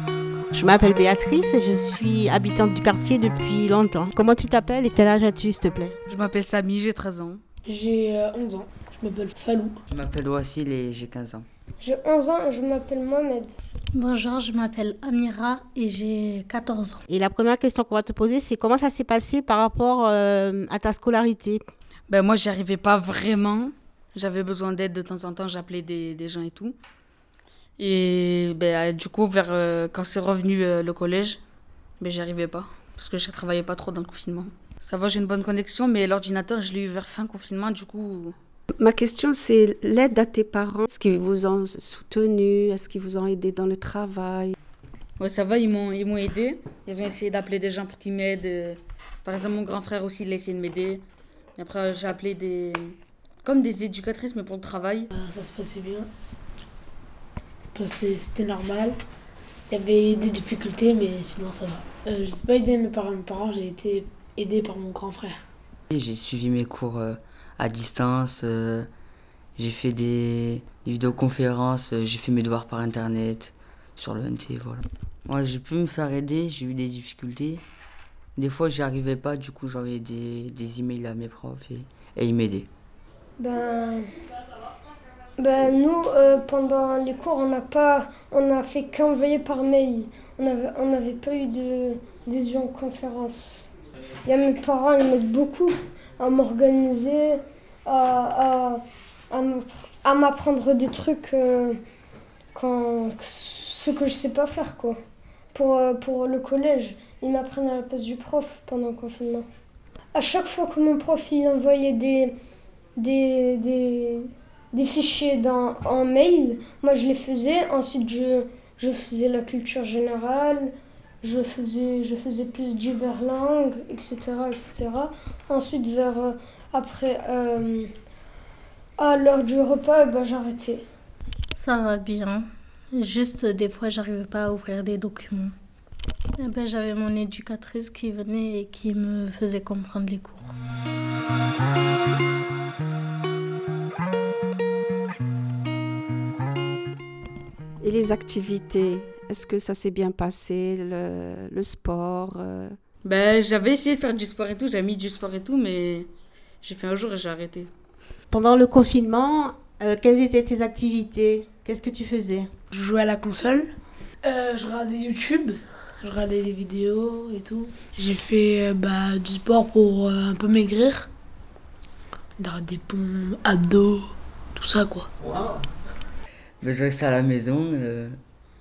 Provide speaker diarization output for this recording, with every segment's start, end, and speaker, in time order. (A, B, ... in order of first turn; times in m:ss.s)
0:00.5-0:05.9 A
0:06.1-0:07.4 B
0:07.6-0:09.8 C
0:09.9-0:11.4 D
0:11.8-0:13.5 E
0:13.9-0:17.0 F
0:17.1-0:21.6 A
0:22.1-0:26.7 B
0:27.8-0:31.4 B
0:32.0-0:38.3 B
0:38.7-0:44.5 G
0:45.2-0:51.0 B
0:51.6-0:55.1 B
0:55.1-0:56.1 C
0:57.7-0:59.0 C
0:59.7-1:05.4 C
1:05.9-1:08.9 D
1:09.6-1:17.6 D
1:18.4-1:22.7 D
1:23.4-1:24.0 E
1:25.4-1:33.7 E
1:34.2-1:38.8 E
1:39.3-1:41.8 E
1:42.5-1:45.0 E
1:45.5-1:49.4 E
1:50.1-1:52.3 E
1:53.0-2:00.7 E
2:01.2-2:07.9 E
2:09.0-2:10.8 E
2:11.6-2:15.5 F
2:16.4-2:20.5 F
2:27.8-2:32.8 G
2:33.0-2:36.1 B
2:36.6-2:37.7 B
2:38.3-2:42.5 A
2:42.7-2:43.7 C
2:44.2-2:51.1 C
2:52.4-2:55.1 C
2:56.6-2:58.2 D